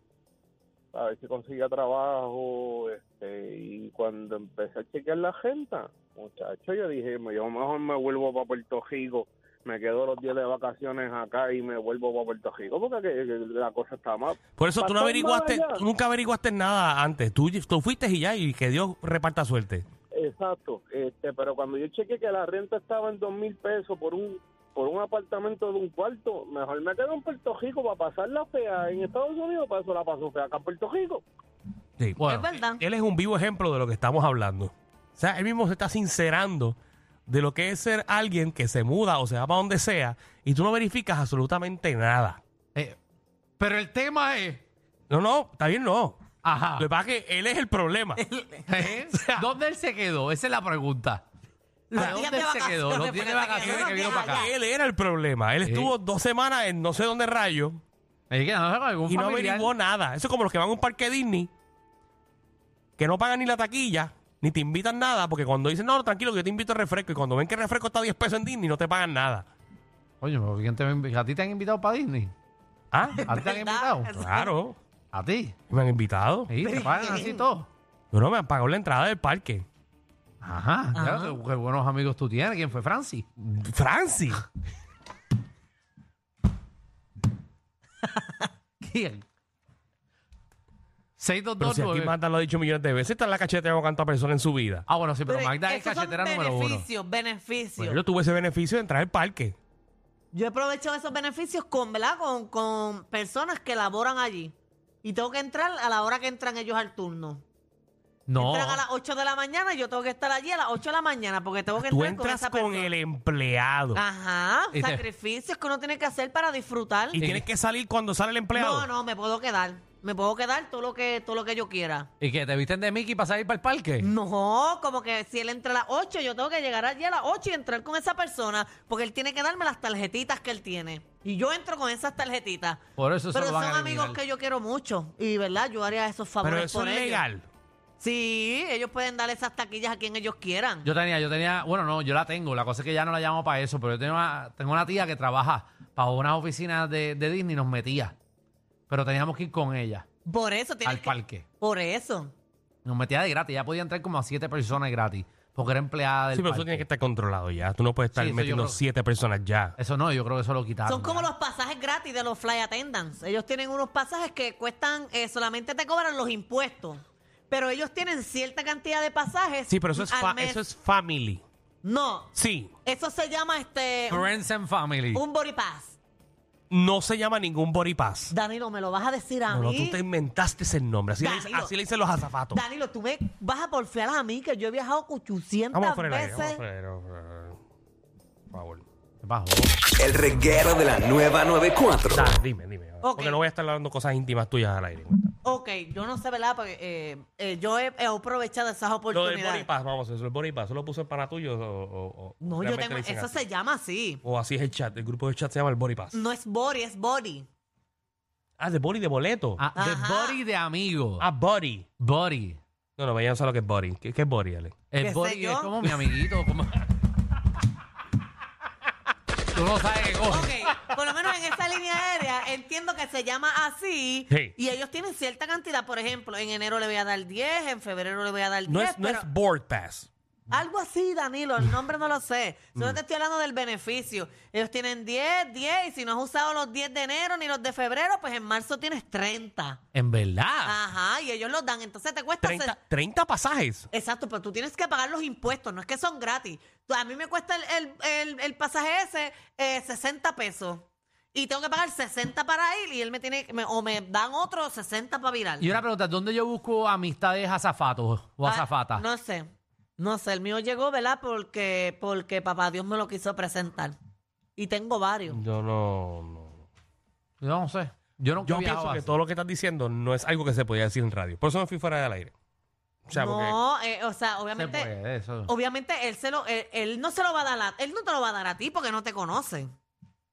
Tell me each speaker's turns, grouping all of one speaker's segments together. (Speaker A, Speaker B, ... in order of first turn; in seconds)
Speaker A: 0.9-15.8, 20.2-31.2
Speaker B: 14.5-19.8, 32.0-36.8, 37.3-42.4, 45.1-46.3, 46.8-48.2, 53.6-57.8, 59.1-61.5, 63.0-69.5, 72.9-73.2, 74.1-74.8, 75.7-76.5, 78.1-79.6, 83.5-84.4, 91.6-94.8, 97.8-99.6, 111.8-114.0, 117.1-118.9, 136.4-137.4, 156.3-159.8, 169.7-171.4, 172.3-172.7, 176.7-178.3, 179.5-182.6, 185.7-187.6, 188.5-188.8, 192.1-195.3, 199.1-203.4, 204.2-206.2, 208.6-209.6, 211.2-211.9, 213.0-214.8, 228.7-230.1, 242.4-243.9, 265.3-266.6, 268.4-272.3, 273.1-273.6
Speaker C: 32.2-32.5, 43.6-44.6, 46.4-46.9, 48.7-51.2, 51.9-54.5, 55.6-55.9, 58.3-59.7, 70.2-72.3, 73.3-74.1, 75.1-75.6, 76.5-77.7, 80.4-83.3, 88.8-89.2, 91.2-92.1, 94.9-96.8, 108.3-108.8, 114.7-115.0, 117.2-117.5, 122.2-124.1, 133.0-134.2, 140.8-148.2, 148.9-150.1, 150.8-151.4, 152.8-156.8, 158.1-158.8, 159.8-161.3, 174.1-175.2, 189.2-189.7, 209.6-211.2, 212.0-212.6, 214.9-216.8, 219.5-220.7, 239.9-240.8, 255.6-259.0, 267.4-269.1, 274.5-275.5
Speaker D: 32.3-32.8, 48.1-48.9, 51.9-54.5, 73.2-74.5, 76.6-77.5, 80.9-81.4, 88.0-88.4, 95.2-98.0, 100.3-107.4, 108.4-112.9, 113.9-117.2, 118.5-122.1, 124.0-132.8, 133.3-137.2, 138.0-140.9, 150.2-152.3, 160.9-170.6, 171.8-172.3, 172.8-174.3, 175.1-176.0, 178.3-180.0, 181.2-181.8, 182.5-186.6, 193.0-193.4, 195.4-199.7, 202.4-204.2, 206.1-207.4, 209.7-210.4, 215.0-215.8, 220.3-229.3, 230.5-239.8, 240.6-242.8, 243.9-255.7, 258.4-263.9, 264.6-265.4, 273.1-274.9, 275.5-279.7
Speaker E: 190.0-192.4